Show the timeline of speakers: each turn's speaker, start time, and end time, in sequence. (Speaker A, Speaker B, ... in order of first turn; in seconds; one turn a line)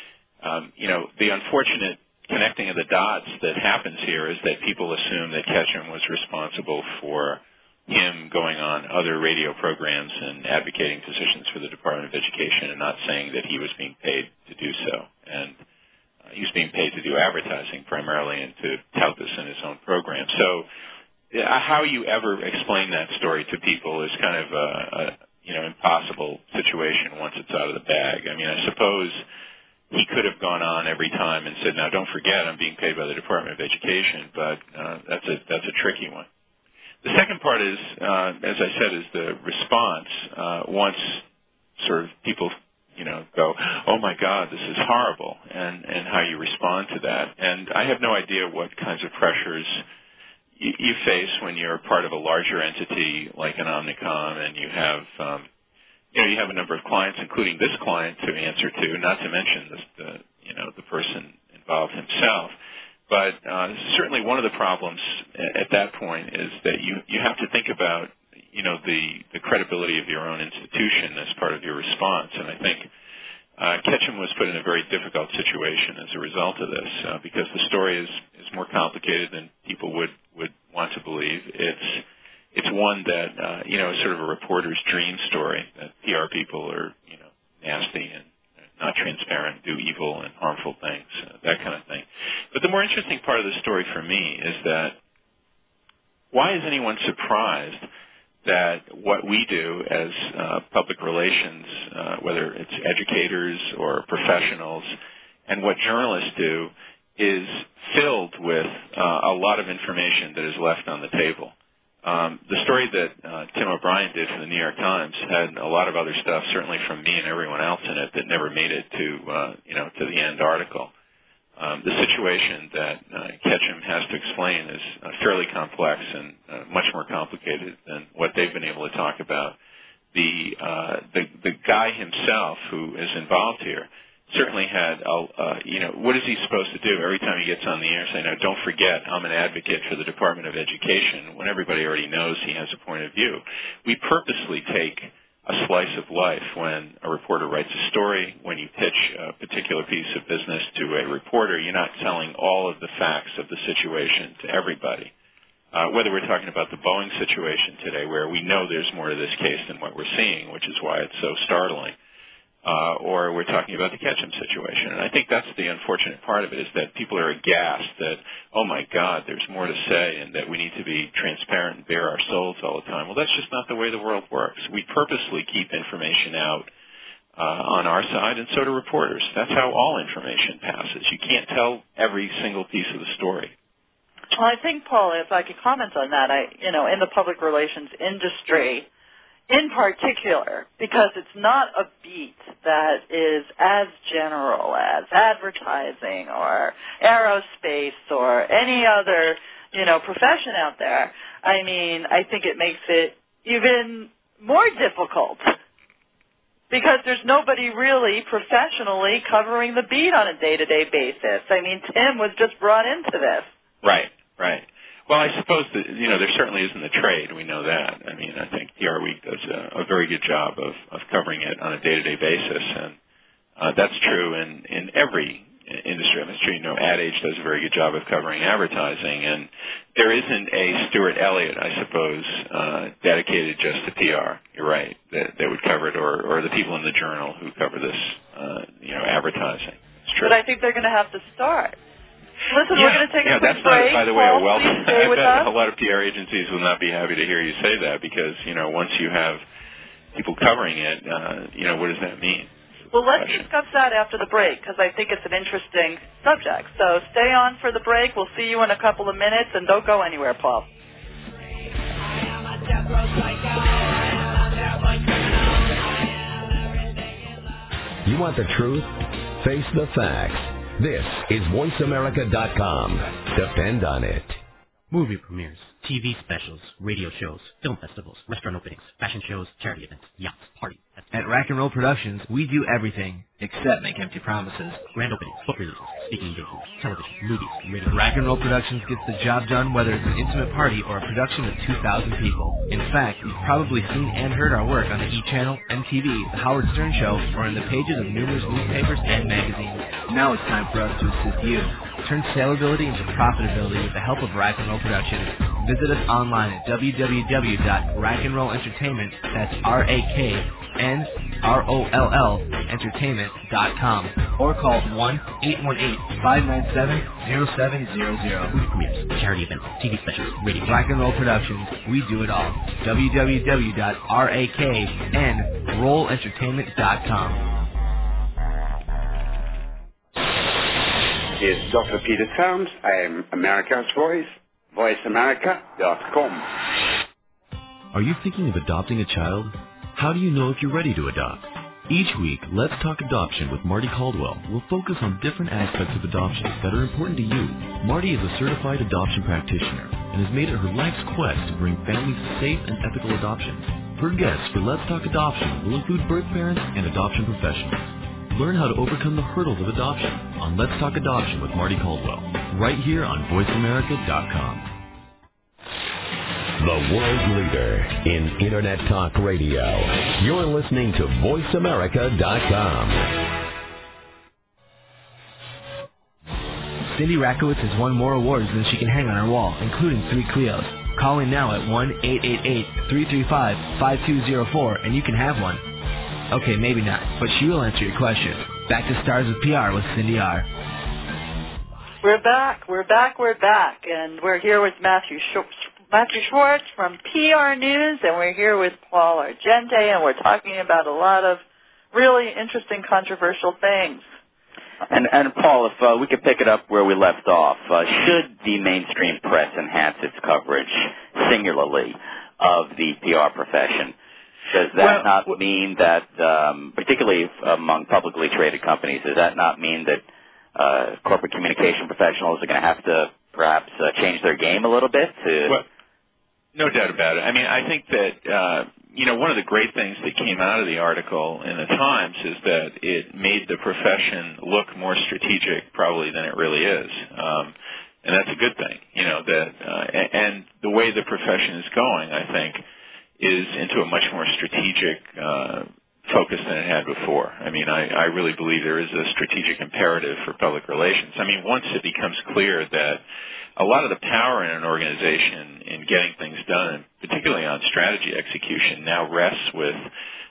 Speaker A: 0.4-15.6
Speaker A: 16.3-20.7
Speaker A: 21.3-29.2
Speaker A: 29.9-36.3
Speaker A: 37.0-41.2
Speaker A: 41.8-49.8
Speaker A: 50.6-55.5
Speaker A: 56.1-62.5
Speaker A: 63.1-72.9
Speaker A: 73.6-95.0
Speaker A: 96.3-97.8
Speaker A: 98.4-105.0
Speaker A: 105.5-120.9
Speaker A: 121.6-129.6
Speaker A: 130.1-155.1
Speaker A: 155.7-161.9
Speaker A: 162.6-176.7
Speaker A: 177.3-183.5
Speaker B: 184.3-188.9
Speaker B: 189.5-205.5
Speaker B: 206.7-213.5
Speaker A: 213.8-223.0
Speaker A: 223.6-240.3
Speaker B: 240.2-241.8
Speaker B: 242.5-245.5
Speaker A: 242.7-249.4
Speaker A: 250.1-252.5
Speaker B: 252.9-260.6
Speaker A: 253.1-253.4
Speaker C: 268.0-274.4
Speaker D: 274.9-281.1
Speaker E: 281.1-284.8
Speaker D: 284.9-288.0
Speaker E: 287.9-318.6
Speaker D: 318.5-320.8
Speaker E: 320.6-327.5
Speaker F: 331.4-336.5
Speaker G: 337.9-364.7
Speaker C: 366.6-373.2
Speaker E: 376.9-385.6
Speaker E: 386.3-390.5
Speaker B: 392.0-401.4
Speaker B: 401.9-404.1
Speaker H: 404.9-413.9
Speaker H: 414.5-420.0
Speaker A: 414.8-415.3
Speaker H: 420.5-425.6
Speaker A: 426.5-442.6
Speaker A: 443.2-453.0
Speaker A: 453.6-459.9